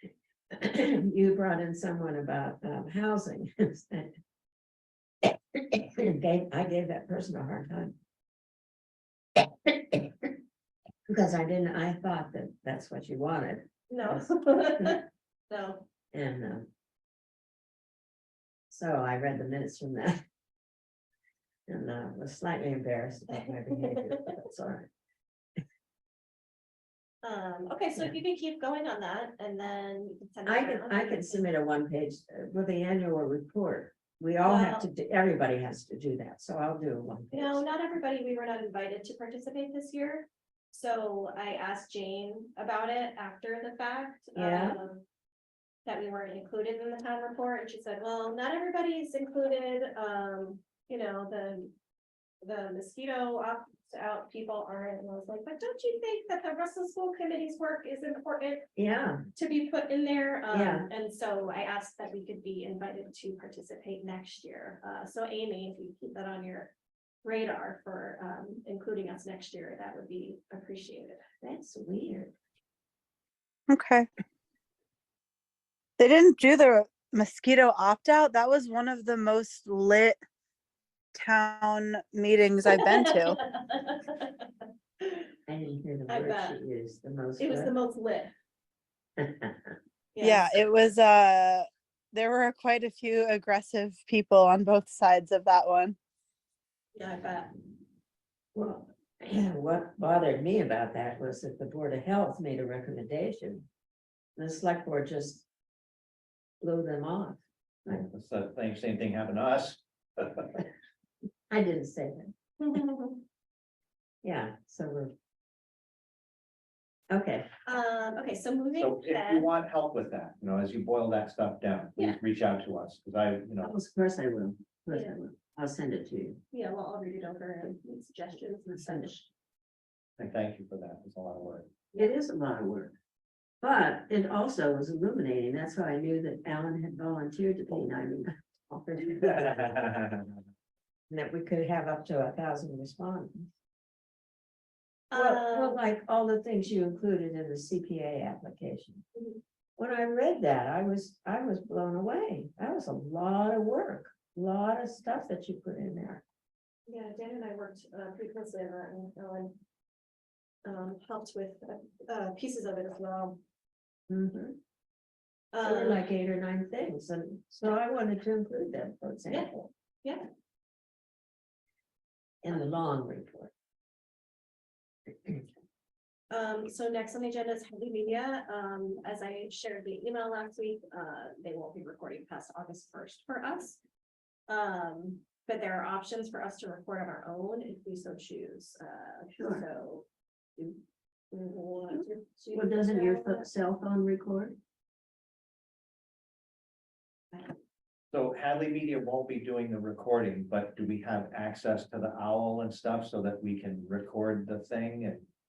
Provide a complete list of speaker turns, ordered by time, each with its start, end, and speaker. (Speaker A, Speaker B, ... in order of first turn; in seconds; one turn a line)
Speaker A: 0.5-4.1
Speaker A: 5.3-8.0
Speaker A: 9.4-10.3
Speaker A: 11.1-15.0
Speaker B: 13.9-15.8
Speaker A: 16.1-16.7
Speaker A: 18.7-20.2
Speaker A: 21.7-24.9
Speaker B: 27.2-31.4
Speaker A: 30.4-37.6
Speaker B: 34.4-34.9
Speaker B: 37.3-45.0
Speaker A: 44.3-44.8
Speaker B: 45.9-51.7
Speaker B: 52.4-58.7
Speaker A: 58.8-59.2
Speaker B: 59.3-71.2
Speaker A: 60.5-60.9
Speaker A: 71.4-72.3
Speaker C: 73.7-74.1
Speaker C: 76.0-80.2
Speaker C: 81.1-83.4
Speaker B: 82.7-84.5
Speaker B: 85.0-85.3
Speaker A: 85.5-87.7
Speaker B: 86.1-86.6
Speaker B: 87.4-88.3
Speaker A: 89.2-89.5
Speaker B: 90.2-90.6
Speaker C: 90.2-96.0
Speaker B: 96.9-97.5
Speaker A: 98.5-103.7
Speaker A: 104.4-105.5
Speaker A: 106.6-108.0
Speaker D: 107.8-110.6
Speaker A: 111.5-112.3
Speaker B: 112.6-113.2
Speaker A: 114.2-115.1
Speaker A: 117.1-117.5
Speaker B: 117.6-119.5
Speaker D: 118.7-123.7
Speaker A: 123.6-126.4
Speaker B: 124.9-125.2
Speaker B: 126.5-129.2
Speaker A: 128.7-129.1
Speaker D: 130.2-131.7
Speaker A: 132.0-132.9
Speaker A: 133.6-140.1
Speaker D: 139.2-140.2
Speaker A: 141.1-143.5
Speaker B: 145.1-145.8
Speaker A: 145.1-149.0
Speaker A: 149.8-156.2
Speaker B: 156.9-159.6
Speaker B: 160.6-163.4
Speaker A: 164.1-164.6
Speaker B: 165.5-166.0
Speaker A: 165.6-169.7
Speaker A: 172.4-173.5
Speaker B: 176.3-183.8
Speaker B: 184.5-190.1
Speaker A: 189.3-189.6
Speaker B: 191.3-193.5
Speaker A: 191.9-194.6
Speaker D: 198.1-205.2